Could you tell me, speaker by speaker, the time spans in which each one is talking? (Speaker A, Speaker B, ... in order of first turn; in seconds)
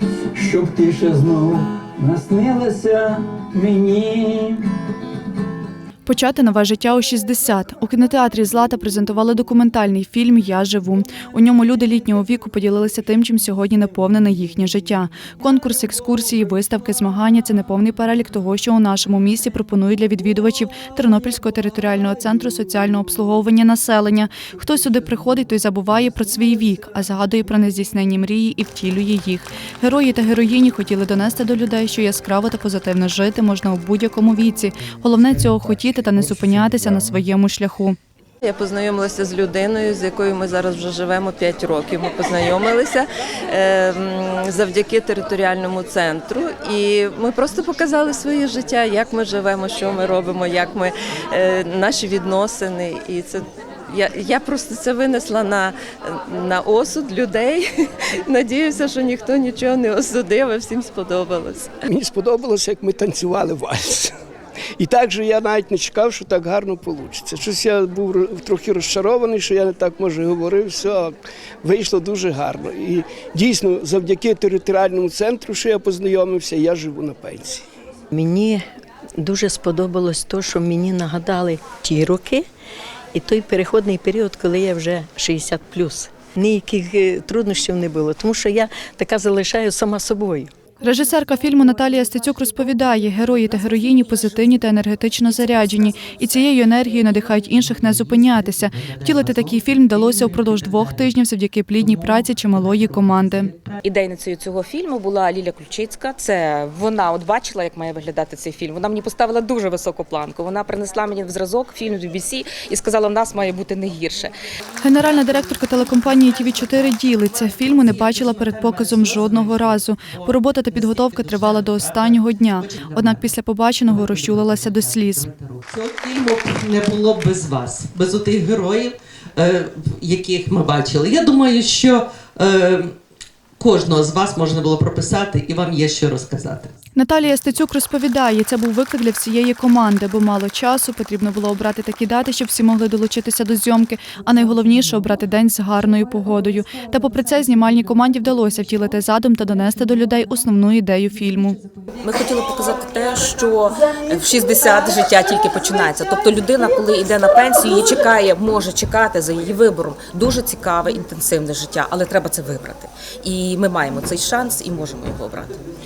Speaker A: 0.3-4.6
Speaker B: 6.0-38.0, 90.8-103.5, 114.8-125.3, 136.9-151.6
Speaker C: 38.4-57.6, 58.2-61.7
Speaker D: 61.9-64.1, 64.8-77.6
Speaker E: 78.1-78.6, 79.2-82.4, 83.1-90.5
Speaker F: 97.6-101.1, 101.8-103.8, 117.7-123.3, 123.9-132.9, 133.6-136.8
Speaker G: 103.8-114.3, 152.0-165.6